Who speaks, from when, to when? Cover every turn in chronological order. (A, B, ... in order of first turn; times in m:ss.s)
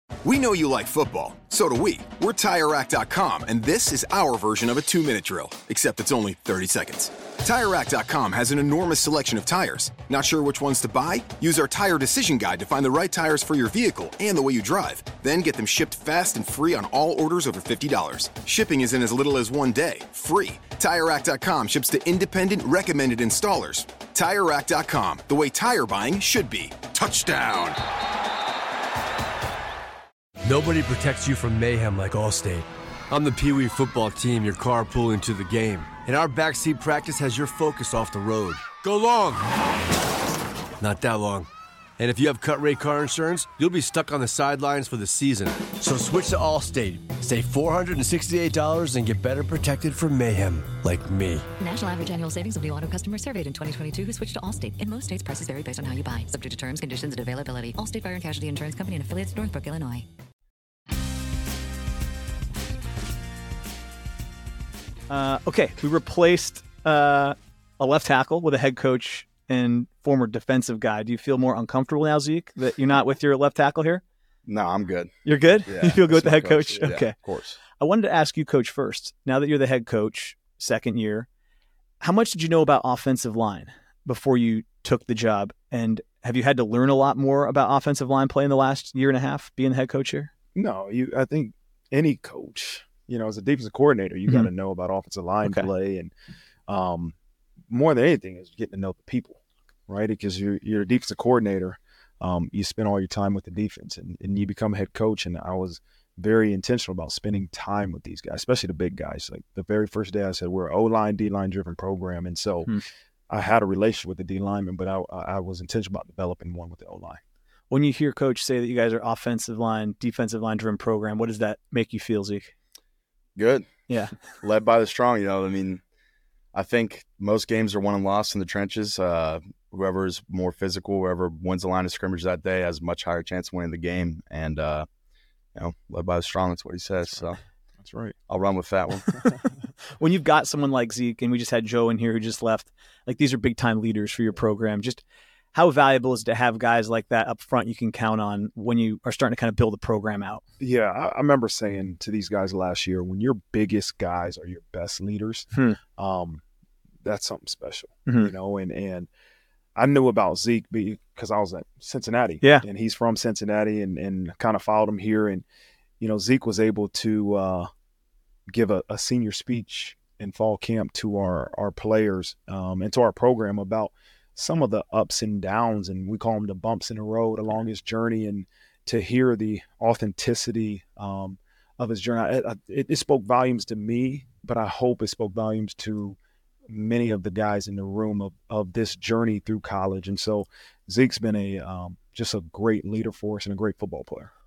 0:00.2-0:27.8 A
0:30.4-0:39.5 B
0:40.8-0:41.5 B
0:42.0-0:51.4 B
0:51.6-1:00.0 C
1:05.1-1:14.0 D
1:14.5-1:17.6 E
1:15.2-1:17.2 D
1:17.8-1:21.3 D
1:22.0-1:30.3 D
1:30.5-1:36.1 F
1:36.7-1:37.2 F
1:37.7-1:57.2 F
1:57.7-2:02.5 D
2:03.4-2:05.8 E
2:03.9-2:04.1 D
2:06.5-2:14.8 E
2:15.5-2:17.4 E
2:17.8-2:18.2 F
2:18.3-2:19.1 E
2:19.1-2:19.4 F
2:20.0-2:30.4 D
2:30.6-2:36.4 F
2:35.5-2:35.8 D
2:37.0-2:39.1 F
2:38.0-2:38.3 D
2:39.8-2:45.4 F
2:46.0-2:47.7 F
2:48.5-3:06.2 F
3:06.7-3:14.3 F